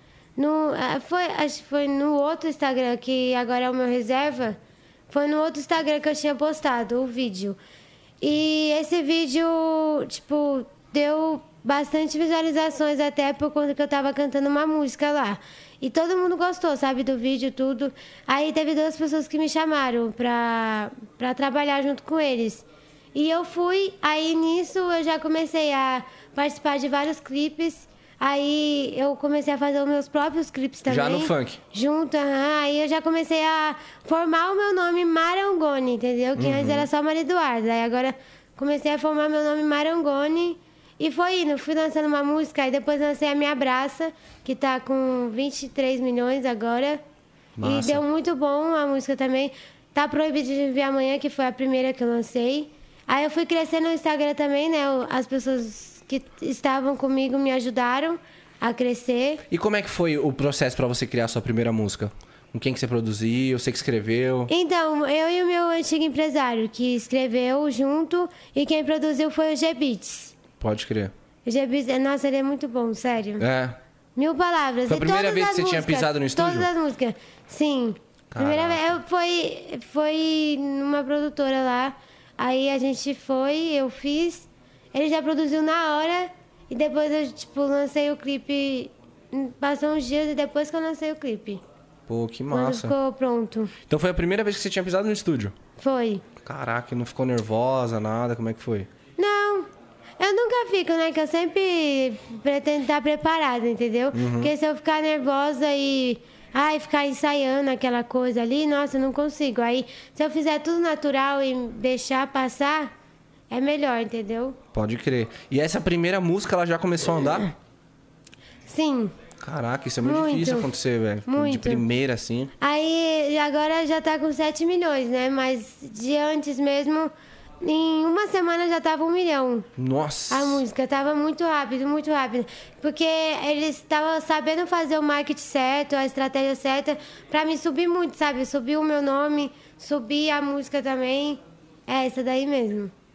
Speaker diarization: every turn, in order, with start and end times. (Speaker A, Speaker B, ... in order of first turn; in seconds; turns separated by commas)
Speaker A: 0.4-4.6, Speaker A: 5.1-7.6, Speaker A: 8.2-47.0, Speaker B: 30.9-31.6, Speaker B: 36.4-36.9, Speaker B: 47.6-48.0, Speaker A: 47.6-59.4, Speaker B: 59.5-64.5, Speaker A: 64.5-70.3, Speaker B: 70.6-71.1, Speaker A: 71.5-73.4, Speaker B: 73.4-73.8, Speaker A: 74.2-91.6, Speaker B: 74.9-76.7, Speaker B: 78.3-78.9, Speaker B: 92.1-92.9, Speaker A: 92.5-93.7, Speaker B: 93.9-95.5, Speaker A: 95.8-96.2, Speaker B: 96.4-98.9, Speaker A: 99.2-99.7, Speaker A: 100.2-112.9, Speaker B: 104.1-104.5, Speaker A: 113.5-114.6, Speaker B: 114.7-117.5, Speaker A: 118.7-119.1, Speaker B: 119.4-122.5, Speaker A: 120.0-120.7, Speaker A: 121.3-121.8, Speaker A: 122.6-129.7, Speaker B: 129.8-130.6, Speaker A: 130.3-142.9